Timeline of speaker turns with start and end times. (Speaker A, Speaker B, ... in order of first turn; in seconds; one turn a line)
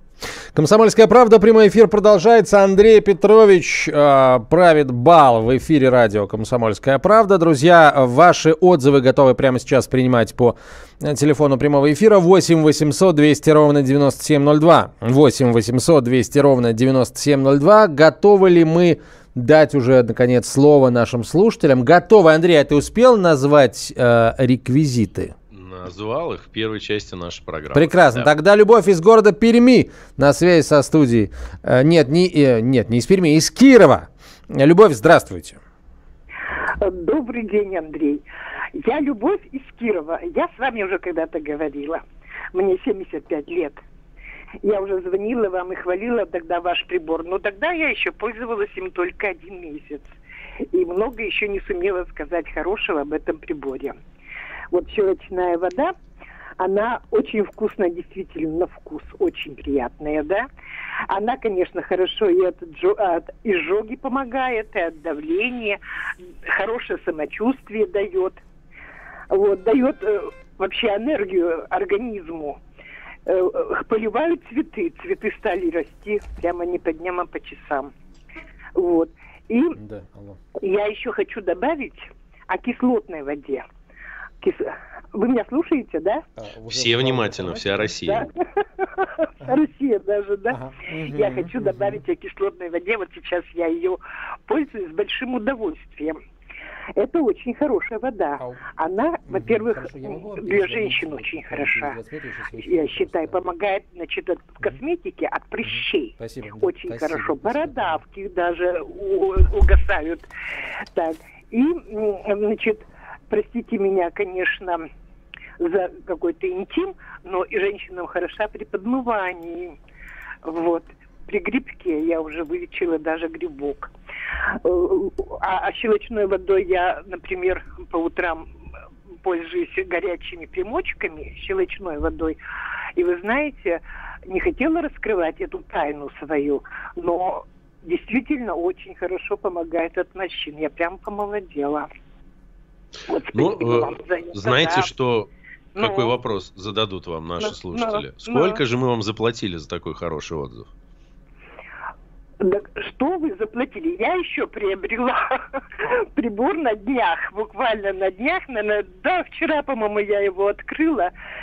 Speaker A: 0.6-25.3
Speaker B: 25.5-28.3
Speaker A: 27.7-35.6
Speaker C: 36.8-42.0
Speaker C: 42.5-43.8
Speaker C: 44.6-50.1
Speaker C: 50.7-53.9
Speaker C: 54.7-55.9
Speaker C: 56.6-60.5
Speaker C: 61.1-65.8
Speaker C: 66.5-68.4
Speaker C: 69.3-72.6
Speaker C: 73.2-77.9
Speaker C: 78.8-79.8
Speaker A: 79.8-80.4
Speaker C: 80.6-83.6
Speaker C: 84.4-86.2
Speaker A: 86.4-88.1
Speaker B: 86.7-88.3
Speaker C: 88.1-96.2
Speaker A: 90.5-92.0
Speaker C: 97.0-102.0
Speaker A: 98.4-98.6
Speaker A: 99.2-103.5
Speaker C: 102.6-110.3
Speaker A: 105.6-108.0
Speaker C: 110.9-114.9
Speaker C: 115.6-119.8
Speaker C: 120.4-123.9
Speaker C: 124.6-128.5
Speaker C: 129.2-132.4
Speaker C: 132.9-141.9
Speaker C: 143.1-144.9
Speaker B: 143.3-150.7
Speaker C: 145.8-146.1
Speaker C: 147.4-148.6
Speaker C: 152.4-161.1